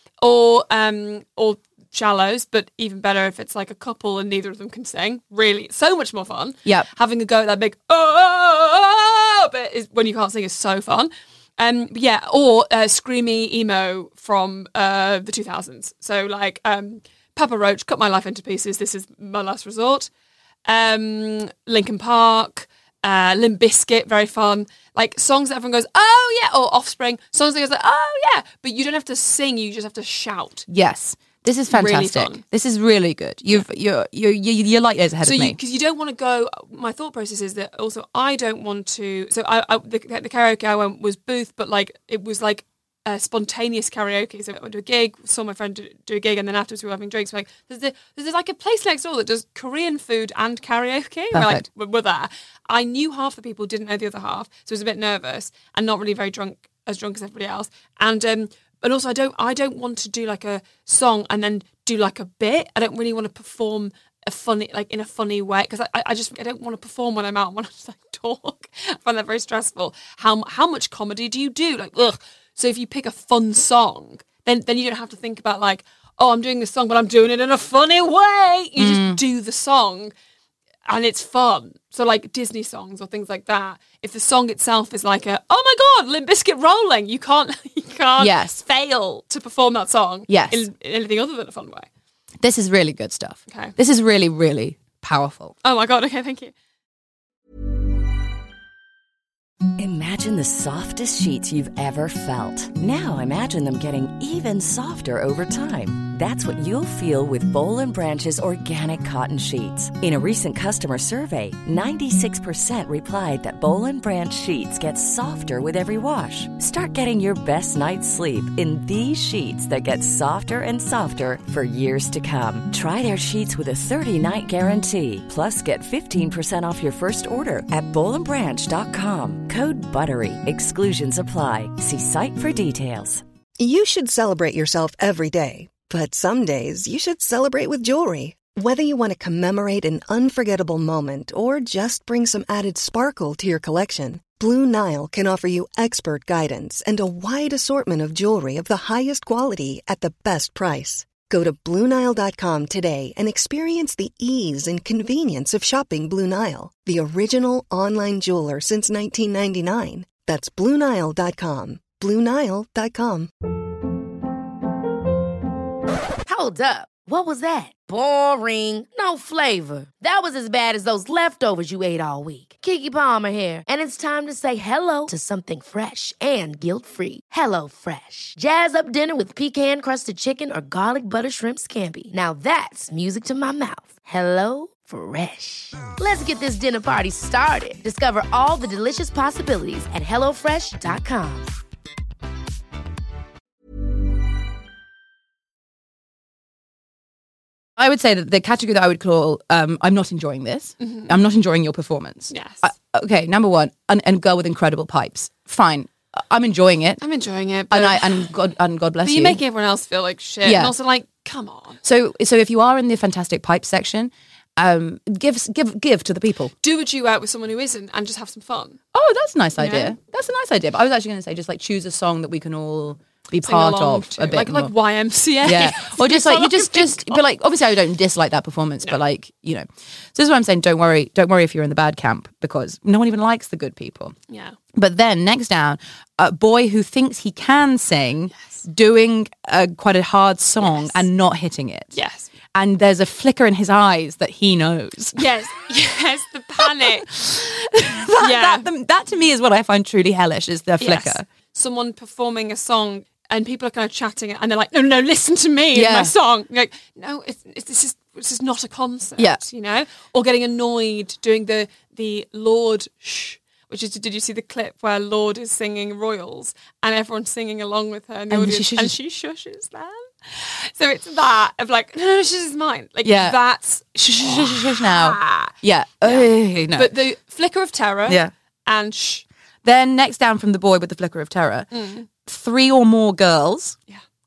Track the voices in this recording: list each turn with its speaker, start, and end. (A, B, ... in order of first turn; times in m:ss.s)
0:00.2-0:20.1 A
0:20.6-0:30.6 A
0:30.7-0:35.6 B
0:31.7-0:32.4 A
0:35.2-1:20.1 A
0:51.3-0:51.6 B
1:18.8-1:19.2 B
1:20.9-1:31.9 A
1:28.2-1:28.6 B
1:30.3-1:30.7 B
1:32.4-1:35.5 B
1:33.5-1:33.8 A
1:35.6-1:36.5 A
1:39.8-2:13.2 C
2:13.6-2:43.3 D
2:46.2-3:11.6 E
3:17.8-3:27.0 B
3:20.8-3:21.1 A
3:22.3-3:22.7 A
3:27.0-3:28.3 A
3:27.7-3:29.4 B
3:29.0-3:31.8 A
3:30.4-3:30.7 B
3:31.8-3:36.5 B
3:36.6-3:38.8 A
3:38.9-3:44.7 B
3:39.6-3:40.0 A
3:43.4-3:47.2 A
3:45.4-3:54.1 B
3:54.3-3:54.6 A
3:54.7-4:01.9 B
3:58.3-3:58.6 A
4:00.6-4:01.0 A
4:01.9-4:02.3 A
4:02.5-4:05.2 B
4:05.1-4:07.2 A
4:06.6-4:11.2 B
4:08.2-4:08.7 A
4:10.8-4:39.2 A
4:15.7-4:16.1 B
4:28.3-4:29.0 B
4:33.0-4:33.4 B
4:34.0-4:37.0 B
4:39.6-4:41.7 B
4:41.7-4:42.1 A
4:42.2-4:43.8 B